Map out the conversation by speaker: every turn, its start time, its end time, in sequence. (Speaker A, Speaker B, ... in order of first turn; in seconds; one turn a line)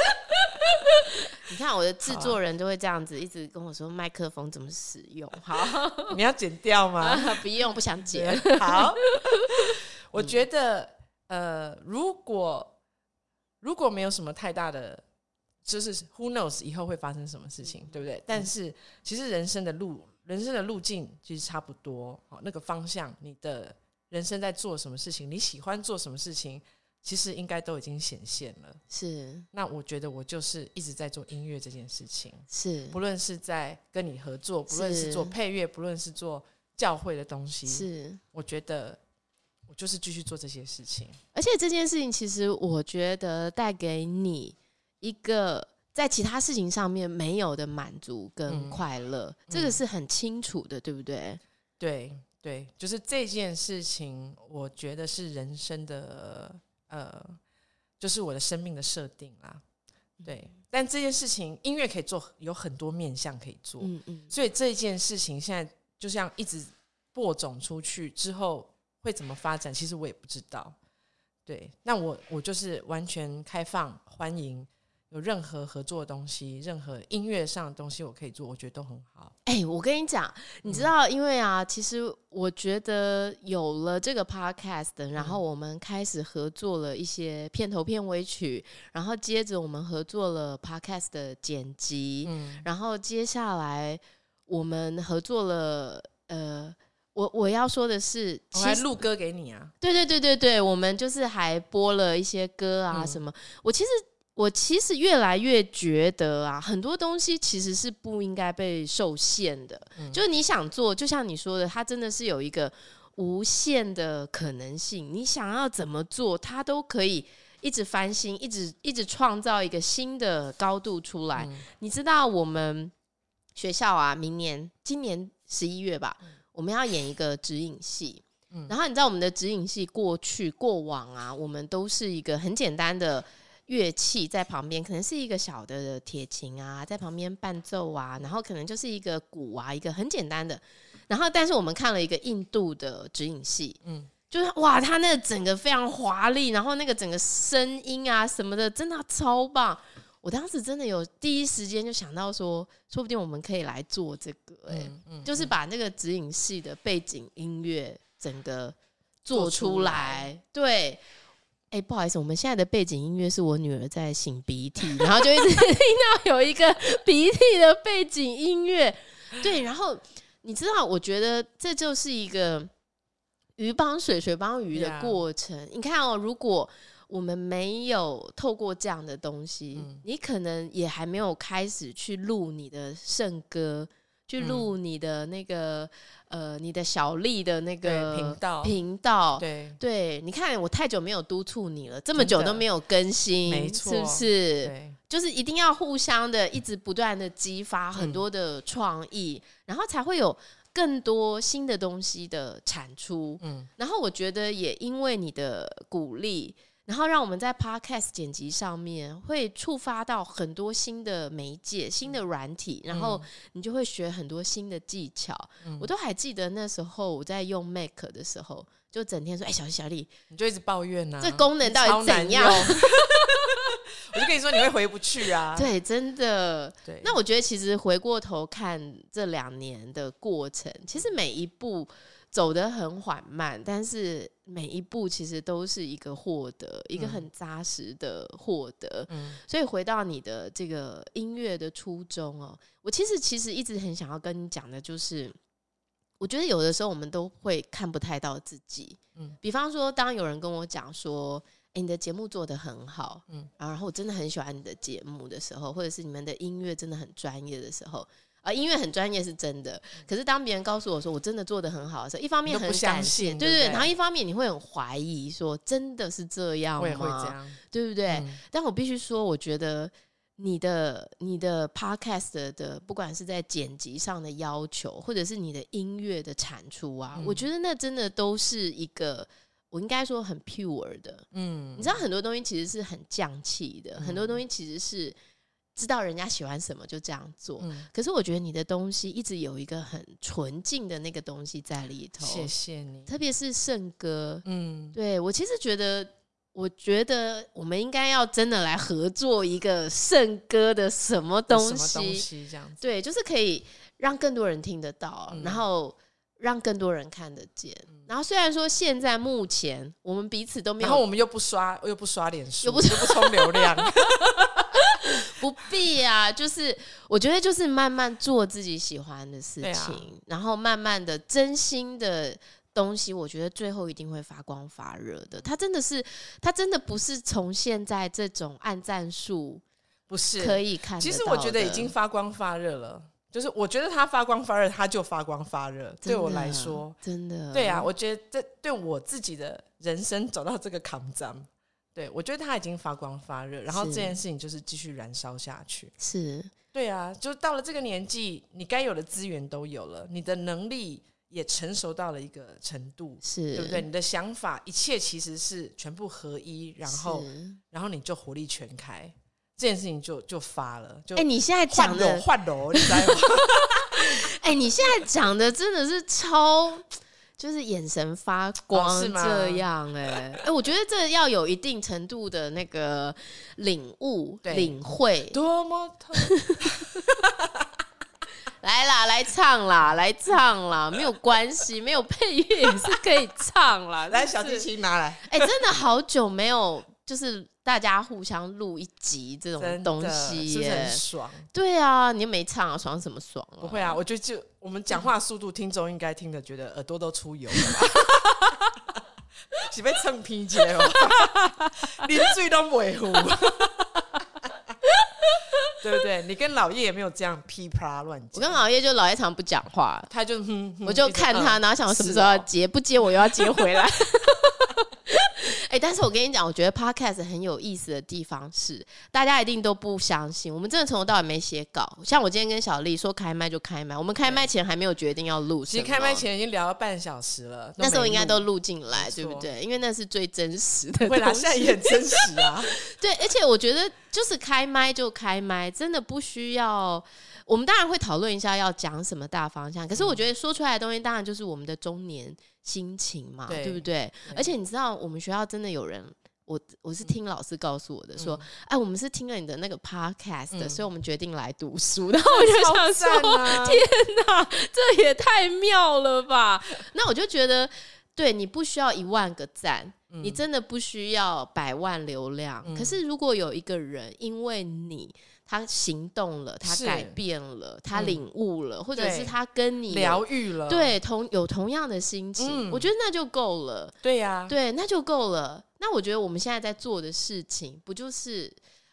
Speaker A: 0.7-6.2
Speaker B: 2.1-2.4
Speaker B: 6.1-7.4
Speaker A: 7.0-9.5
Speaker B: 8.1-12.7
Speaker B: 13.6-15.0
Speaker B: 15.7-28.8
Speaker A: 28.9-29.4
Speaker B: 29.5-39.0
Speaker A: 32.5-33.0
Speaker A: 34.7-35.4
Speaker A: 37.7-38.2
Speaker B: 39.7-41.2
Speaker A: 41.3-51.4
Speaker B: 48.5-48.8
Speaker B: 49.5-49.8
Speaker B: 51.8-57.4
Speaker B: 58.0-59.6
Speaker B: 60.2-70.8
Speaker A: 63.8-64.3
Speaker B: 71.5-79.3
Speaker A: 79.5-99.0
Speaker B: 80.7-80.9
Speaker B: 92.2-92.7
Speaker B: 98.5-99.7
Speaker A: 99.8-122.9
Speaker B: 102.9-103.2
Speaker B: 121.4-121.6
Speaker A: 123.5-143.8
Speaker B: 143.8-144.1
Speaker A: 144.3-161.0
Speaker B: 154.7-155.5
Speaker B: 159.3-160.3
Speaker A: 161.7-172.7
Speaker A: 173.6-220.1
Speaker B: 174.7-175.2
Speaker B: 179.8-180.0
Speaker B: 184.4-184.7
Speaker B: 187.8-188.8
Speaker B: 189.4-189.8
Speaker B: 192.2-192.7
Speaker B: 193.5-195.0
Speaker B: 198.0-198.2
Speaker B: 203.4-203.7
Speaker B: 212.9-213.3
Speaker B: 215.6-215.9
Speaker B: 220.3-225.7
Speaker A: 221.2-223.6
Speaker A: 225.5-245.4
Speaker B: 226.8-227.2
Speaker B: 236.9-237.2
Speaker B: 239.1-239.4
Speaker A: 246.2-285.2
Speaker B: 262.5-263.9
Speaker B: 266.8-268.4
Speaker B: 277.1-277.5
Speaker B: 281.3-282.0
Speaker B: 284.0-284.4
Speaker A: 285.8-292.5
Speaker B: 287.6-287.9
Speaker B: 292.2-293.1
Speaker A: 293.1-302.3
Speaker B: 294.4-295.0
Speaker B: 301.5-302.9
Speaker A: 302.8-311.0
Speaker B: 305.3-305.6
Speaker B: 310.8-314.8
Speaker A: 312.6-329.6
Speaker B: 319.6-320.1
Speaker B: 330.1-337.0
Speaker A: 330.4-331.9
Speaker A: 336.1-337.9
Speaker B: 337.5-345.9
Speaker A: 343.7-344.2
Speaker A: 346.0-346.5
Speaker B: 346.7-364.1
Speaker A: 353.2-353.9
Speaker A: 356.9-357.6
Speaker A: 361.2-366.9
Speaker A: 367.4-375.4
Speaker B: 368.7-369.6
Speaker B: 374.4-374.8
Speaker B: 375.3-377.7
Speaker A: 376.2-376.8
Speaker A: 378.6-384.7
Speaker B: 384.1-385.6
Speaker A: 385.2-391.0
Speaker B: 389.6-391.5
Speaker A: 391.5-394.0
Speaker B: 393.6-399.0
Speaker B: 399.5-404.5
Speaker A: 401.2-401.7
Speaker A: 405.1-405.7
Speaker B: 405.8-408.6
Speaker A: 408.3-410.1
Speaker B: 410.1-412.5
Speaker A: 410.9-426.2
Speaker B: 413.3-413.8
Speaker B: 424.2-424.5
Speaker B: 425.7-429.5
Speaker A: 427.8-473.9
Speaker B: 431.0-432.8
Speaker B: 439.9-440.2
Speaker B: 443.5-444.5
Speaker B: 448.2-448.5
Speaker B: 450.5-450.8
Speaker B: 452.2-453.9
Speaker B: 460.1-460.4
Speaker B: 462.6-463.0
Speaker B: 466.6-467.2
Speaker B: 467.9-468.2
Speaker B: 468.9-469.3
Speaker B: 469.9-471.0
Speaker B: 472.4-472.9
Speaker B: 474.0-474.6
Speaker A: 474.5-478.6